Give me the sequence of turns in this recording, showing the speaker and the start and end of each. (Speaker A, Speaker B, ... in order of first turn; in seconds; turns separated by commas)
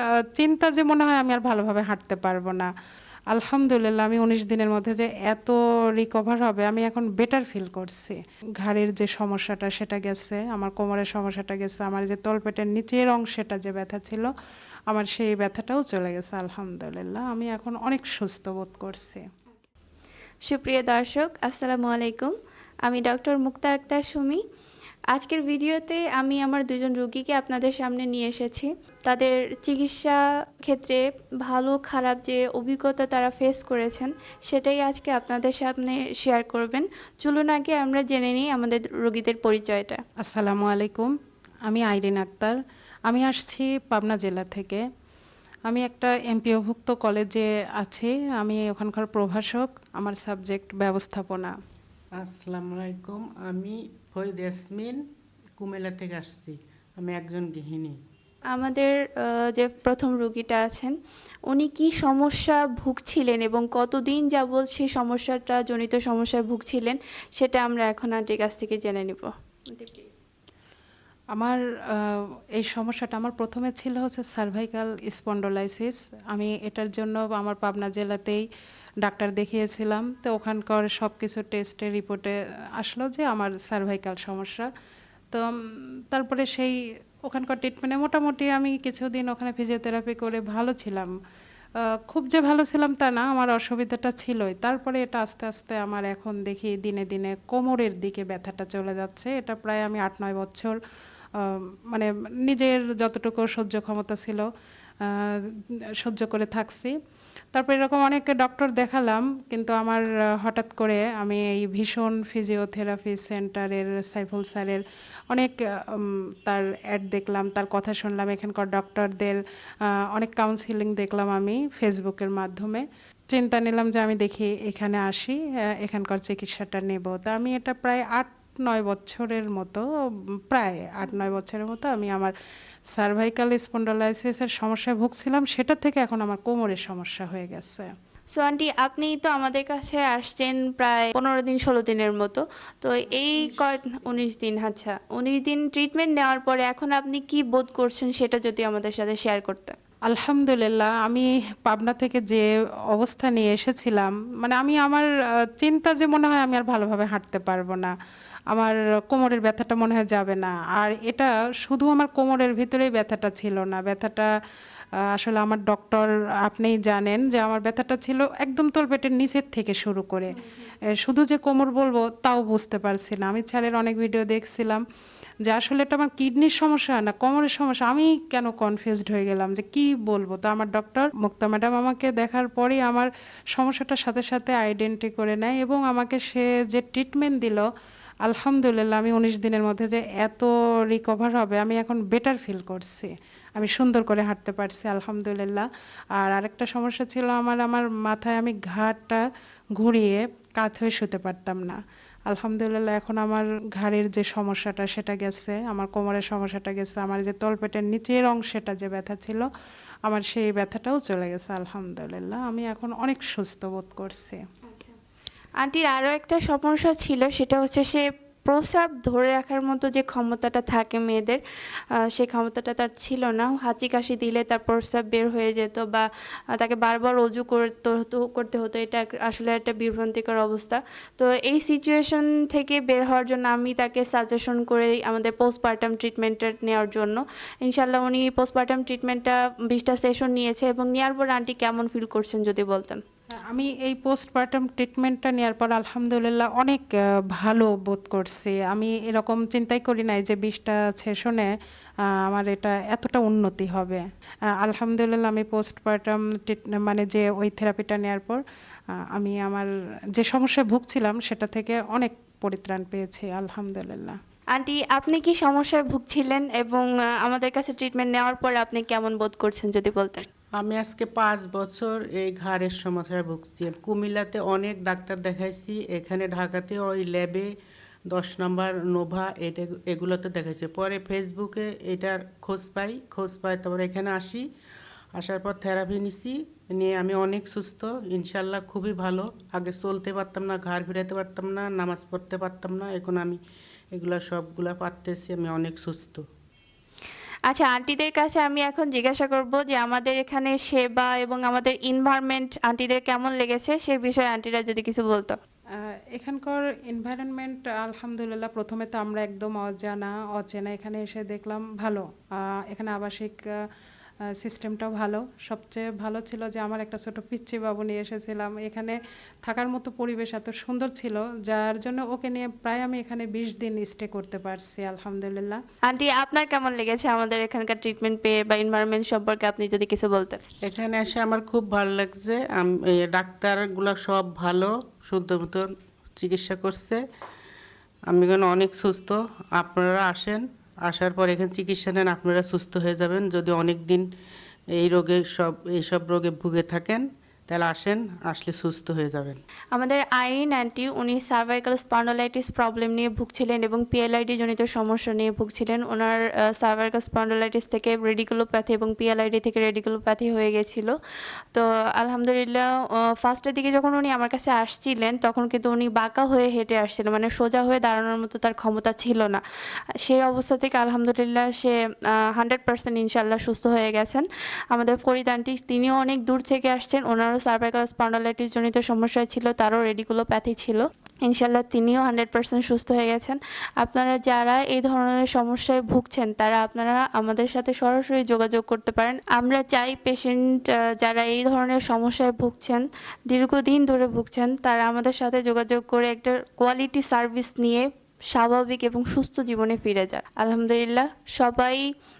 Speaker A: 0.3-2.7, Speaker A: 3.3-14.3, Speaker A: 14.9-19.2, Speaker B: 20.5-22.3, Speaker B: 22.9-24.4, Speaker B: 25.1-40.0, Speaker A: 40.2-41.1, Speaker A: 41.7-44.8, Speaker A: 45.7-51.5, Speaker C: 52.2-55.0, Speaker C: 55.6-58.0, Speaker B: 58.5-60.9, Speaker B: 61.5-70.1, Speaker A: 71.3-78.4, Speaker A: 79.0-84.7, Speaker A: 86.1-86.7, Speaker A: 87.3-91.1, Speaker A: 92.1-100.7, Speaker A: 101.5-104.5, Speaker A: 105.1-105.3, Speaker A: 106.0-106.9, Speaker A: 107.5-119.4, Speaker A: 120.1-129.8, Speaker A: 130.5-132.3, Speaker A: 132.9-137.9, Speaker B: 138.3-149.7, Speaker A: 150.1-155.1, Speaker A: 155.6-157.9, Speaker A: 158.5-164.3, Speaker A: 165.2-170.4, Speaker B: 170.3-170.7, Speaker A: 170.9-174.8, Speaker A: 175.4-187.7, Speaker A: 188.2-195.7, Speaker A: 196.2-199.2, Speaker A: 199.8-209.4, Speaker A: 210.1-214.4, Speaker B: 214.7-214.9, Speaker B: 215.6-221.4, Speaker B: 222.1-243.0, Speaker A: 243.5-251.5, Speaker A: 252.2-254.0, Speaker A: 254.6-258.4, Speaker A: 259.1-264.2, Speaker B: 264.5-270.2, Speaker C: 270.6-277.5, Speaker C: 278.1-284.4, Speaker C: 285.1-293.4, Speaker C: 293.9-296.2, Speaker B: 297.5-305.3, Speaker A: 306.1-312.0, Speaker A: 312.7-313.4, Speaker A: 314.4-325.6, Speaker B: 325.9-330.4, Speaker C: 330.6-337.0, Speaker C: 338.1-344.1, Speaker C: 344.7-349.4, Speaker B: 349.7-360.9, Speaker B: 361.5-362.7, Speaker B: 363.2-369.4, Speaker B: 370.0-401.9